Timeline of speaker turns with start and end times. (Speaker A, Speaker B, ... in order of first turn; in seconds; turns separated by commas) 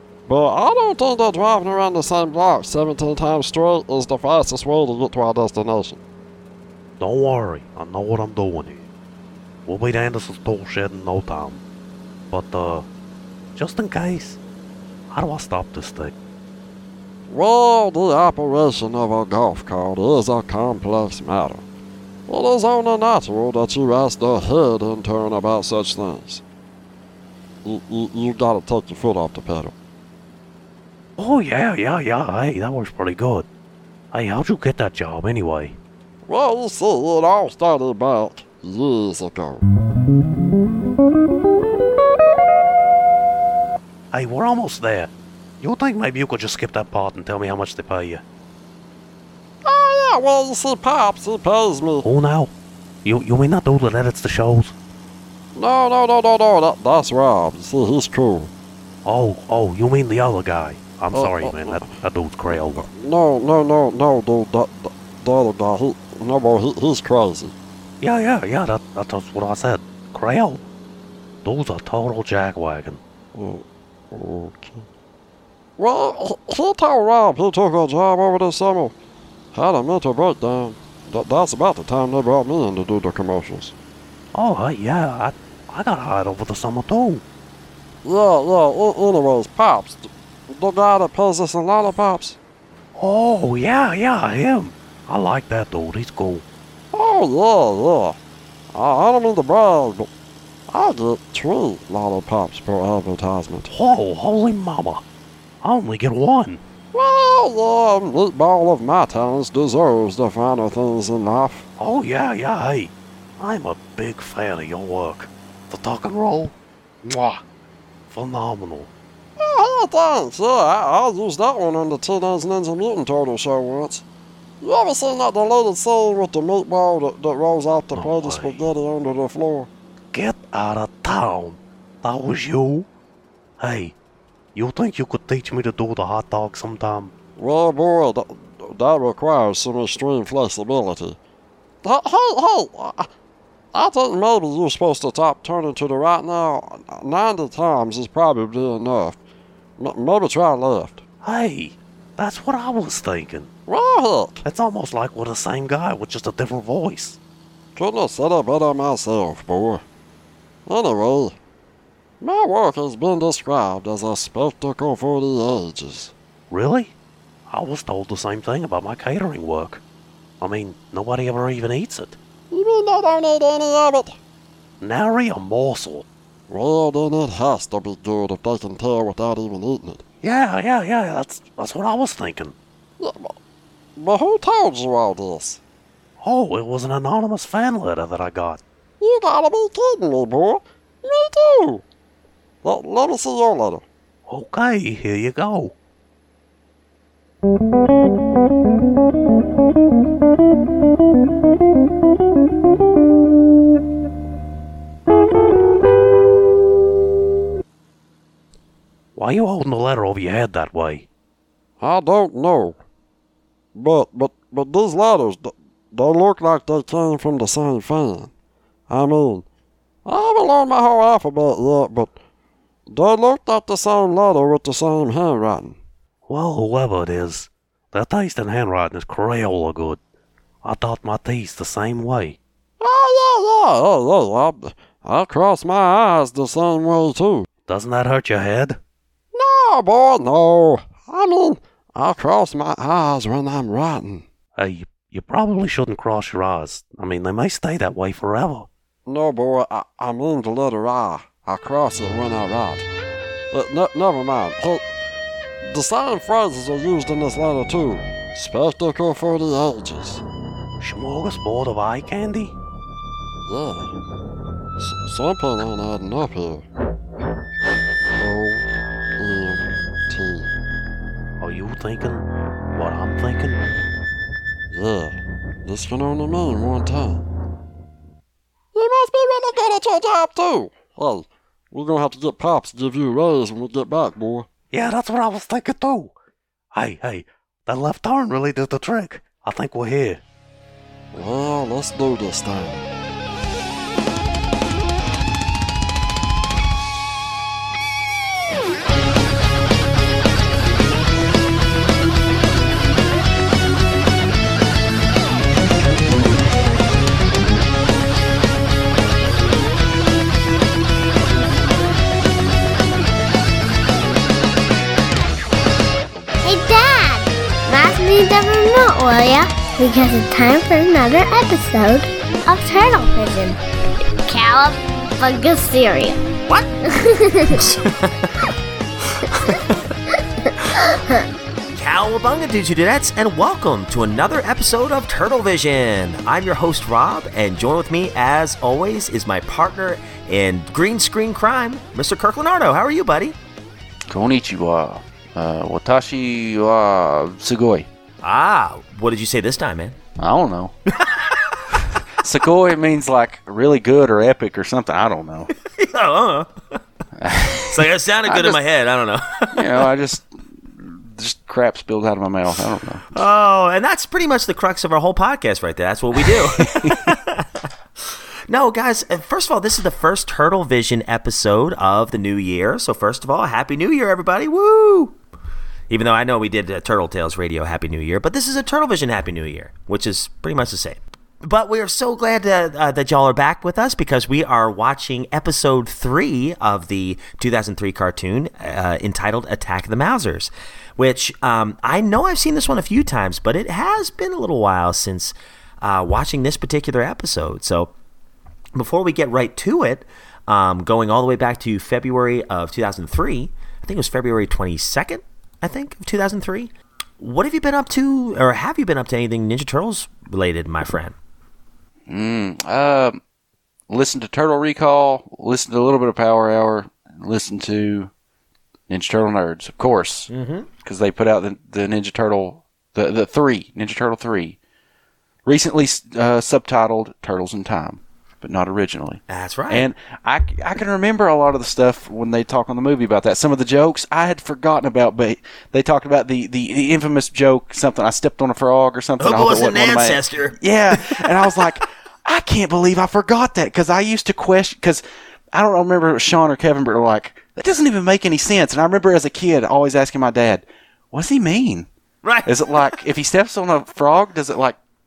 Speaker A: 0.3-6.0, Speaker B: 7.0-8.8, Speaker B: 9.7-11.6, Speaker B: 12.3-12.8, Speaker B: 13.6-14.4, Speaker B: 15.1-16.1, Speaker A: 17.3-21.6, Speaker A: 22.3-26.4, Speaker A: 27.6-29.7, Speaker B: 31.2-33.5, Speaker B: 34.1-35.8, Speaker A: 36.3-39.6, Speaker B: 44.1-45.1, Speaker B: 45.6-48.2, Speaker A: 49.6-52.0, Speaker B: 52.0-52.5, Speaker B: 53.0-54.7, Speaker A: 55.5-58.5, Speaker B: 59.0-62.9, Speaker A: 61.1-61.9, Speaker A: 62.9-67.5, Speaker B: 68.0-70.6, Speaker B: 71.4-73.0, Speaker A: 73.3-74.9, Speaker A: 75.8-78.9, Speaker A: 79.5-83.7, Speaker B: 84.3-87.2, Speaker A: 88.0-92.4, Speaker B: 93.0-96.4, Speaker A: 96.9-98.2, Speaker A: 98.7-100.1, Speaker A: 100.7-103.7, Speaker B: 103.7-105.0, Speaker B: 105.6-106.6, Speaker A: 106.9-111.7, Speaker B: 111.8-116.5, Speaker B: 117.0-117.4, Speaker B: 118.1-118.9, Speaker A: 119.4-124.0, Speaker A: 124.6-129.7, Speaker B: 127.9-128.6, Speaker B: 130.1-132.9, Speaker B: 133.6-133.9, Speaker B: 134.5-137.1, Speaker A: 137.4-141.2, Speaker A: 141.8-143.1, Speaker A: 143.7-149.2, Speaker A: 149.8-151.0, Speaker B: 151.2-153.5, Speaker A: 153.7-154.4, Speaker B: 154.4-157.2, Speaker A: 157.8-159.8, Speaker A: 160.7-161.4, Speaker A: 162.2-166.1, Speaker B: 166.5-166.9, Speaker B: 167.5-169.8, Speaker B: 170.4-172.2, Speaker A: 172.5-174.2, Speaker B: 174.8-176.0, Speaker A: 176.5-180.0, Speaker B: 180.2-182.5, Speaker A: 183.0-183.4, Speaker A: 183.9-185.6, Speaker B: 186.2-188.6, Speaker A: 189.0-191.8, Speaker A: 192.6-193.8, Speaker B: 194.3-195.7, Speaker B: 209.2-211.1, Speaker A: 211.8-212.8, Speaker A: 213.7-218.3, Speaker A: 218.9-219.4, Speaker A: 220.0-222.2, Speaker A: 222.9-225.8, Speaker B: 226.3-230.0, Speaker B: 230.6-232.4, Speaker A: 232.8-237.5, Speaker B: 237.7-238.8, Speaker A: 239.3-244.3, Speaker B: 244.5-248.7, Speaker A: 249.1-252.9, Speaker A: 253.5-254.9, Speaker A: 255.6-260.2, Speaker B: 260.8-262.5, Speaker A: 263.5-263.9, Speaker A: 264.8-266.6, Speaker A: 268.1-270.5, Speaker B: 271.4-273.6, Speaker A: 274.7-277.2, Speaker A: 278.7-284.5, Speaker B: 284.7-286.1, Speaker B: 286.7-290.2, Speaker A: 291.1-292.9, Speaker C: 316.4-323.6, Speaker C: 324.2-326.2, Speaker C: 326.9-327.6, Speaker D: 327.5-328.3, Speaker C: 330.9-331.2, Speaker D: 331.7-343.4, Speaker E: 344.1-347.9, Speaker D: 348.2-349.9, Speaker E: 350.2-350.7, Speaker D: 351.0-351.6, Speaker E: 352.2-355.5, Speaker D: 355.6-356.8, Speaker E: 357.2-358.6, Speaker D: 357.6-359.8, Speaker E: 359.5-363.1, Speaker D: 363.1-375.1, Speaker E: 366.2-367.0, Speaker D: 375.9-397.9, Speaker D: 398.7-411.1, Speaker E: 412.1-413.2, Speaker E: 413.9-418.1, Speaker E: 418.9-420.3, Speaker D: 420.3-420.7, Speaker E: 420.8-424.6, Speaker E: 425.4-451.9, Speaker D: 429.3-429.9, Speaker D: 439.2-441.5, Speaker D: 452.2-453.0, Speaker E: 452.4-454.8